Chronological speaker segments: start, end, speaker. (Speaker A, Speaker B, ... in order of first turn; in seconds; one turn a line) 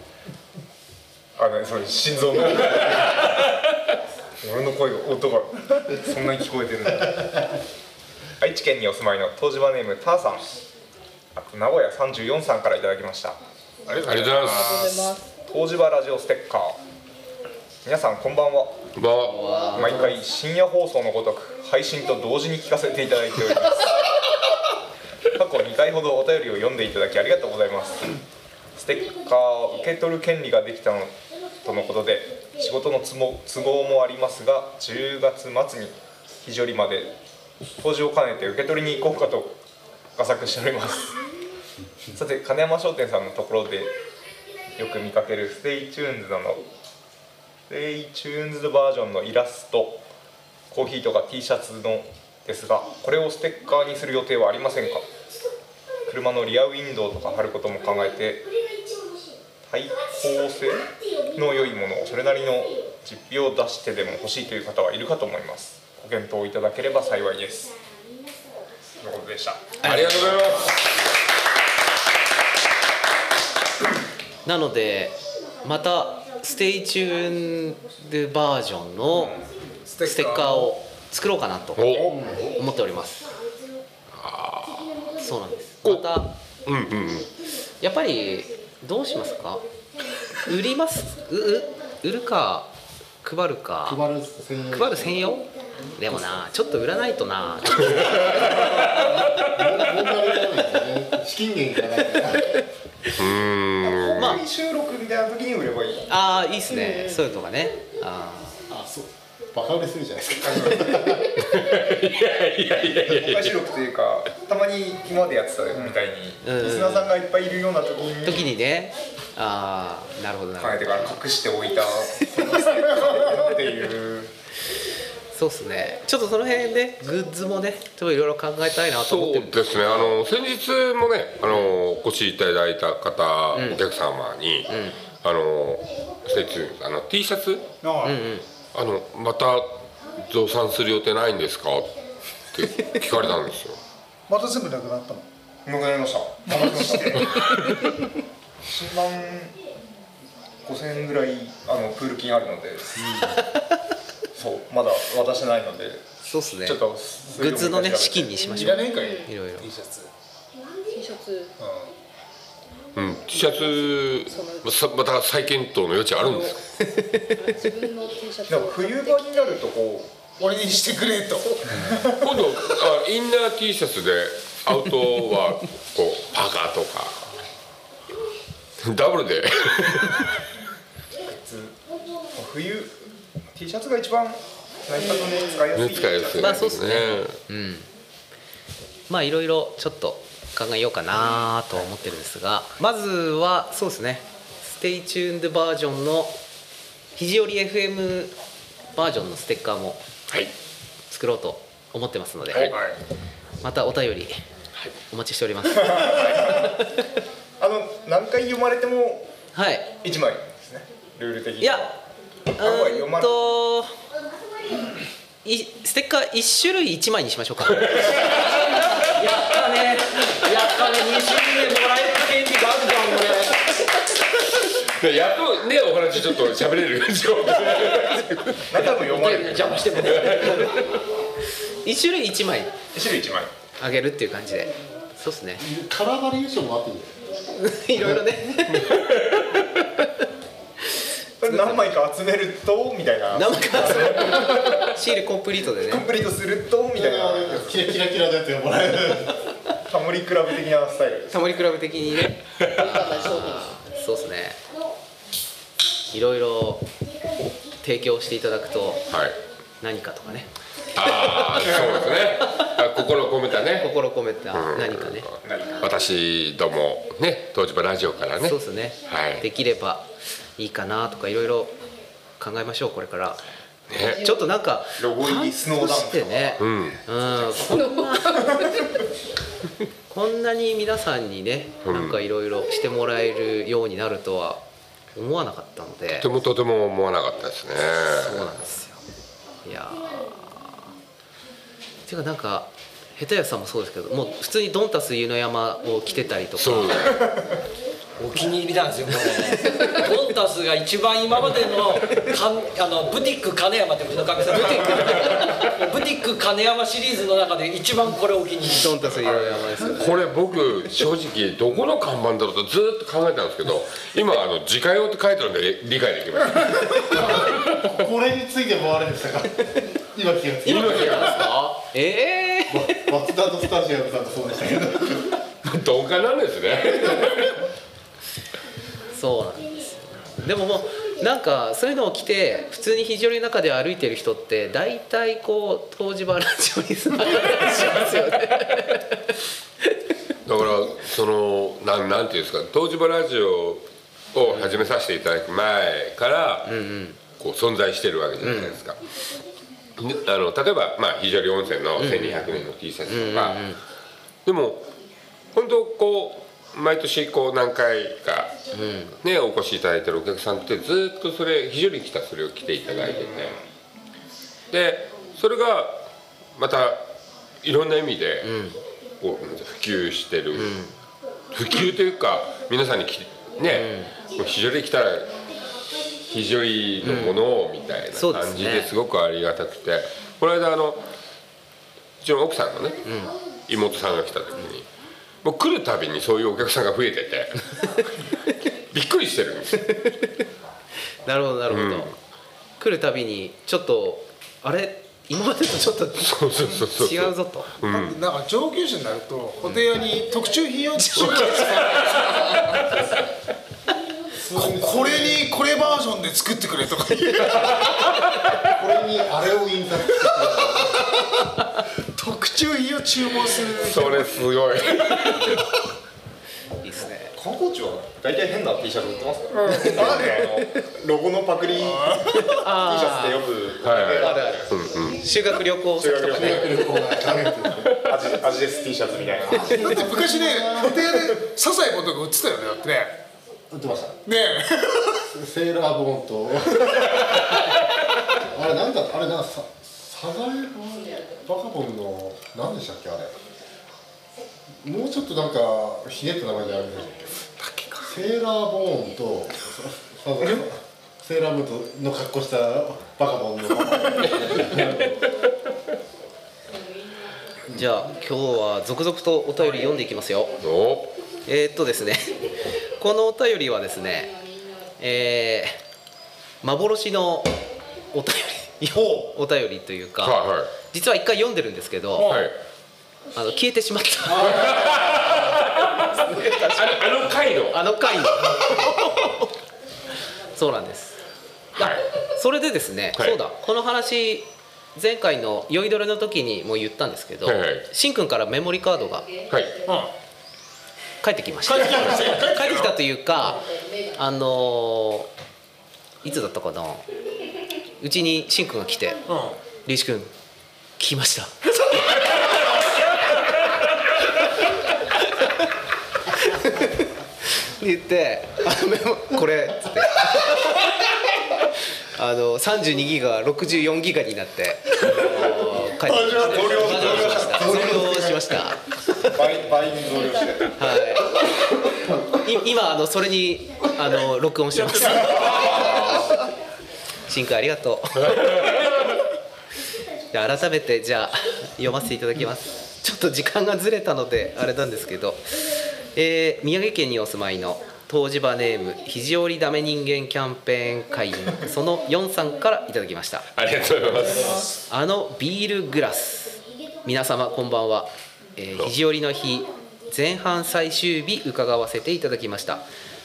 Speaker A: 1.4-3.4
Speaker A: 4.4-7.3
Speaker A: 8.4-10.5
Speaker A: 11.3-13.4
Speaker B: 13.9-15.2
Speaker C: 14.0-14.7
Speaker D: 14.5-15.3
Speaker A: 15.4-16.8
Speaker A: 17.8-18.8
Speaker C: 18.9-19.4
Speaker E: 19.2-20.2
Speaker A: 19.7-24.0
Speaker A: 25.3-28.2
Speaker A: 28.8-37.1
Speaker A: 37.8-39.6
Speaker A: 40.1-41.2
Speaker A: 42.1-43.9
Speaker A: 44.8-46.6
Speaker A: 47.7-50.0
Speaker A: 50.7-55.0
Speaker A: 56.1-58.5
Speaker A: 59.6-67.7
Speaker A: 69.0-69.7
Speaker E: 69.8-70.5
Speaker C: 69.8-70.8
Speaker E: 74.4-79.4
Speaker B: 79.8-80.7
Speaker E: 80.0-83.3
Speaker C: 81.8-82.1
Speaker F: 82.1-82.4
Speaker C: 84.1-84.9
Speaker E: 85.2-86.3
Speaker C: 86.6-87.3
Speaker E: 87.8-89.6
Speaker E: 90.4-94.0
Speaker F: 93.8-95.3
Speaker E: 94.7-98.5
Speaker F: 98.4-102.6
Speaker A: 98.4-99.0
Speaker C: 103.2-104.4
Speaker A: 103.8-106.1
Speaker E: 104.1-104.4
Speaker E: 106.1-108.6
Speaker D: 106.7-107.1
Speaker F: 108.7-111.3
Speaker A: 110.4-111.2
Speaker C: 111.3-113.6
Speaker A: 113.0-118.4
Speaker E: 116.4-117.1
Speaker E: 118.2-121.2
Speaker A: 120.6-124.3
Speaker E: 122.2-123.2
Speaker E: 125.3-130.2
Speaker C: 128.9-137.7
Speaker E: 133.5-133.8
Speaker E: 134.7-135.0
Speaker B: 137.8-138.2
Speaker E: 138.0-138.4
Speaker C: 138.7-142.0
Speaker C: 142.5-143.8
Speaker B: 144.3-145.2
Speaker A: 145.6-147.4
Speaker B: 146.4-147.3
Speaker A: 148.6-149.6
Speaker A: 150.6-153.4
Speaker A: 154.3-156.0
Speaker E: 156.2-159.7
Speaker A: 156.6-158.7
Speaker D: 158.3-159.3
Speaker B: 158.5-160.1
Speaker D: 160.9-161.5
Speaker B: 161.6-161.9
Speaker C: 162.9-166.6
Speaker D: 164.3-164.7
Speaker D: 166.2-166.5
Speaker E: 166.8-167.4
Speaker D: 167.3-169.3
Speaker A: 168.5-170.1
Speaker B: 170.4-171.9
Speaker A: 171.7-172.4
Speaker C: 172.1-177.3
Speaker C: 178.8-180.2
Speaker A: 181.2-181.8
Speaker A: 182.3-183.0
Speaker A: 183.5-186.6
Speaker D: 184.9-185.7
Speaker C: 185.7-187.4
Speaker E: 186.3-187.9
Speaker E: 189.1-196.3
Speaker E: 197.1-198.3
Speaker E: 198.9-200.1
Speaker C: 200.3-200.5
Speaker E: 201.1-202.8
Speaker C: 202.5-202.9
Speaker B: 202.7-203.0
Speaker E: 203.6-204.4
Speaker E: 205.1-206.8
Speaker A: 206.1-206.7
Speaker A: 207.6-209.3
Speaker E: 209.5-209.9
Speaker A: 210.0-211.9
Speaker E: 211.6-212.0
Speaker E: 212.6-213.9
Speaker A: 212.6-213.3
Speaker E: 215.4-218.3
Speaker C: 217.8-218.4
Speaker G: 218.3-223.7
Speaker C: 224.7-228.6
Speaker A: 228.7-230.2
Speaker G: 228.8-230.9
Speaker C: 230.1-230.8
Speaker E: 231.8-232.7
Speaker A: 232.9-233.5
Speaker E: 233.8-235.6
Speaker F: 235.6-237.2
Speaker E: 237.5-239.1
Speaker C: 239.0-239.4
Speaker A: 241.4-244.8
Speaker E: 241.4-242.0
Speaker E: 243.3-246.1
Speaker A: 245.8-247.8
Speaker F: 246.9-249.4
Speaker A: 249.9-251.4
Speaker E: 251.3-254.6
Speaker D: 252.8-253.7
Speaker E: 256.1-256.9
Speaker E: 257.7-259.1
Speaker C: 259.1-259.4
Speaker E: 259.8-260.5
Speaker C: 260.9-263.9
Speaker E: 261.0-261.9
Speaker E: 263.6-265.3
Speaker C: 264.5-269.4
Speaker A: 265.4-265.9
Speaker E: 268.4-271.8
Speaker E: 272.4-273.4
Speaker C: 273.9-274.2
Speaker E: 273.9-278.6
Speaker D: 274.0-274.4
Speaker A: 275.0-276.7
Speaker C: 276.6-277.0
Speaker D: 277.7-278.9
Speaker E: 280.1-284.6
Speaker C: 281.8-282.2
Speaker E: 285.1-286.3
Speaker C: 286.2-288.5
Speaker E: 288.1-289.0
Speaker E: 289.6-290.9
Speaker E: 292.1-297.2
Speaker C: 296.5-297.3
Speaker G: 298.2-309.1
Speaker E: 299.7-299.9
Speaker E: 305.1-305.7
Speaker E: 308.7-310.3
Speaker A: 309.2-309.6
Speaker C: 309.3-317.9
Speaker F: 316.9-321.5
Speaker C: 320.6-321.5
Speaker E: 320.6-323.1
Speaker F: 322.7-325.3
Speaker C: 325.6-327.6
Speaker E: 329.1-339.3
Speaker C: 340.4-346.7
Speaker E: 344.5-344.9
Speaker E: 346.6-347.2
Speaker C: 347.4-349.0
Speaker E: 348.4-348.8
Speaker C: 350.0-353.6
Speaker E: 352.0-353.8
Speaker C: 354.4-354.8
Speaker C: 355.5-358.6
Speaker E: 358.7-359.2
Speaker C: 359.2-363.6
Speaker A: 363.0-363.6
Speaker C: 364.7-366.0
Speaker C: 366.6-367.1
Speaker C: 367.6-368.5
Speaker E: 368.4-368.8
Speaker C: 369.2-370.8
Speaker E: 370.5-370.9
Speaker C: 371.5-375.4
Speaker E: 373.7-374.1
Speaker C: 376.1-381.0
Speaker E: 377.0-377.4
Speaker E: 378.1-378.9
Speaker C: 382.2-383.0
Speaker E: 383.0-383.3
Speaker C: 383.7-384.9
Speaker C: 385.4-388.1
Speaker C: 388.7-389.9
Speaker E: 389.7-390.3
Speaker E: 391.2-392.1
Speaker C: 391.7-392.1
Speaker E: 392.8-397.7
Speaker C: 396.2-398.2
Speaker B: 397.9-403.0
Speaker C: 401.2-401.9
Speaker F: 404.4-405.7
Speaker B: 404.5-408.0
Speaker F: 408.6-411.1
Speaker B: 412.1-414.4
Speaker C: 413.8-415.7
Speaker B: 415.2-415.6
Speaker E: 416.8-417.3
Speaker A: 417.3-425.1
Speaker B: 419.7-420.1
Speaker E: 419.7-420.3
Speaker B: 421.8-422.2
Speaker E: 422.3-426.7
Speaker C: 423.8-425.2
Speaker A: 426.0-426.9
Speaker F: 426.3-428.0
Speaker A: 427.9-429.8
Speaker F: 429.4-431.2
Speaker B: 429.7-433.2
Speaker F: 433.7-434.2
Speaker B: 434.2-435.2
Speaker F: 435.2-437.6
Speaker F: 438.3-443.4
Speaker F: 444.8-447.4
Speaker B: 447.5-448.1
Speaker F: 448.0-455.3
Speaker E: 457.7-460.6
Speaker C: 460.6-461.1
Speaker E: 461.4-464.4
Speaker E: 465.0-465.8
Speaker E: 466.6-467.6
Speaker E: 468.1-472.4
Speaker C: 470.2-470.7
Speaker C: 472.2-472.6
Speaker E: 473.3-475.3
Speaker C: 474.4-477.8
Speaker E: 476.0-477.2
Speaker E: 477.7-479.5
Speaker E: 480.5-481.2
Speaker C: 481.7-482.0
Speaker E: 481.8-489.3
Speaker C: 487.4-487.9
Speaker C: 489.5-489.8
Speaker B: 489.8-490.1
Speaker E: 491.2-495.3
Speaker B: 491.6-493.0
Speaker D: 493.7-494.1
Speaker E: 496.2-497.0
Speaker E: 498.0-499.2
Speaker B: 499.3-499.6
Speaker E: 499.8-500.3
Speaker E: 501.0-501.5
Speaker E: 505.1-505.7
Speaker E: 506.3-511.0
Speaker E: 512.0-519.4
Speaker B: 516.0-517.5
Speaker A: 516.3-517.8
Speaker F: 517.4-518.6
Speaker A: 519.3-520.8
Speaker E: 520.6-521.3
Speaker E: 522.2-526.4
Speaker C: 525.0-526.3
Speaker E: 527.3-528.9
Speaker E: 530.3-535.6
Speaker E: 536.1-543.5
Speaker C: 543.5-544.7
Speaker D: 544.1-544.8
Speaker E: 544.4-552.8